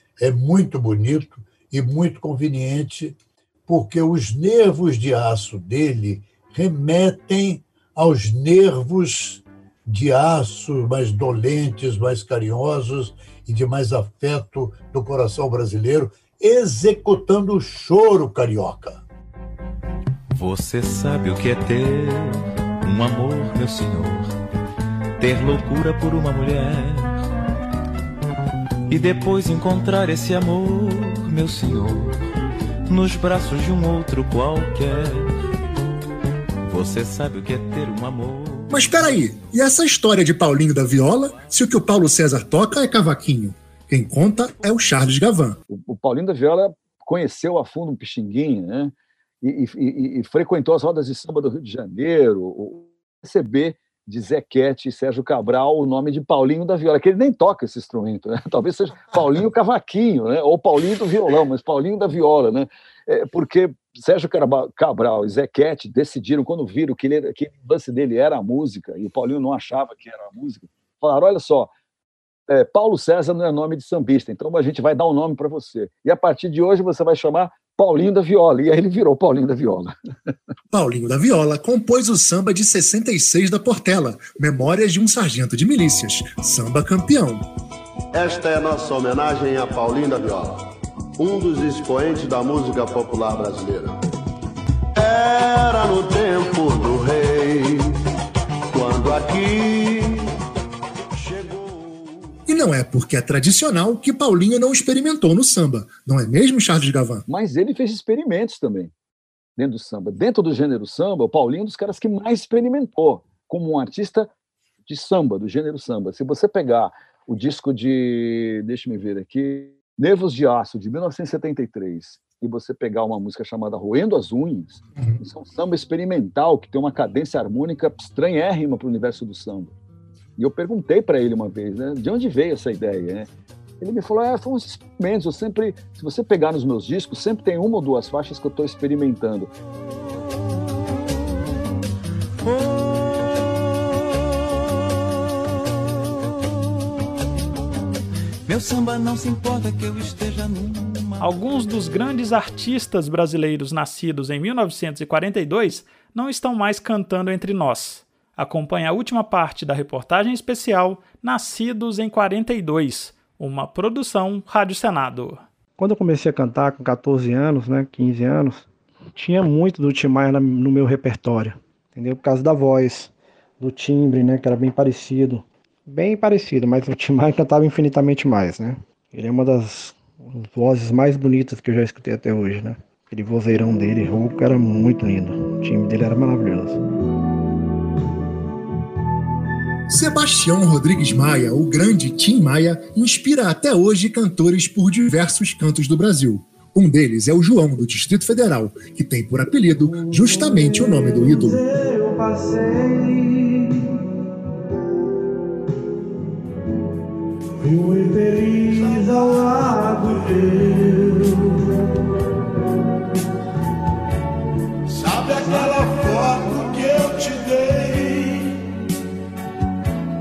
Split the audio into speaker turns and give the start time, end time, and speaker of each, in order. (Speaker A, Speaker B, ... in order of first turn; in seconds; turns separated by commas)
Speaker A: 0.2-3.1, Speaker A: 3.7-19.0, Speaker B: 20.3-24.4, Speaker B: 25.2-27.2, Speaker B: 28.9-32.2, Speaker B: 32.9-35.3, Speaker B: 36.6-39.1, Speaker C: 38.7-45.6, Speaker D: 45.7-71.7, Speaker D: 72.5-79.9, Speaker C: 80.7-87.4, Speaker E: 88.1-90.6, Speaker E: 91.2-94.0, Speaker E: 95.0-97.9, Speaker E: 98.7-100.3, Speaker E: 101.1-102.3, Speaker C: 102.5-107.2, Speaker D: 107.3-108.9, Speaker D: 109.6-114.3, Speaker D: 114.9-129.7, Speaker D: 130.4-139.5, Speaker B: 148.4-151.3, Speaker F: 151.2-165.4, Speaker G: 165.8-186.8, Speaker C: 189.9-201.6, Speaker G: 200.1-203.4, Speaker G: 207.6-210.2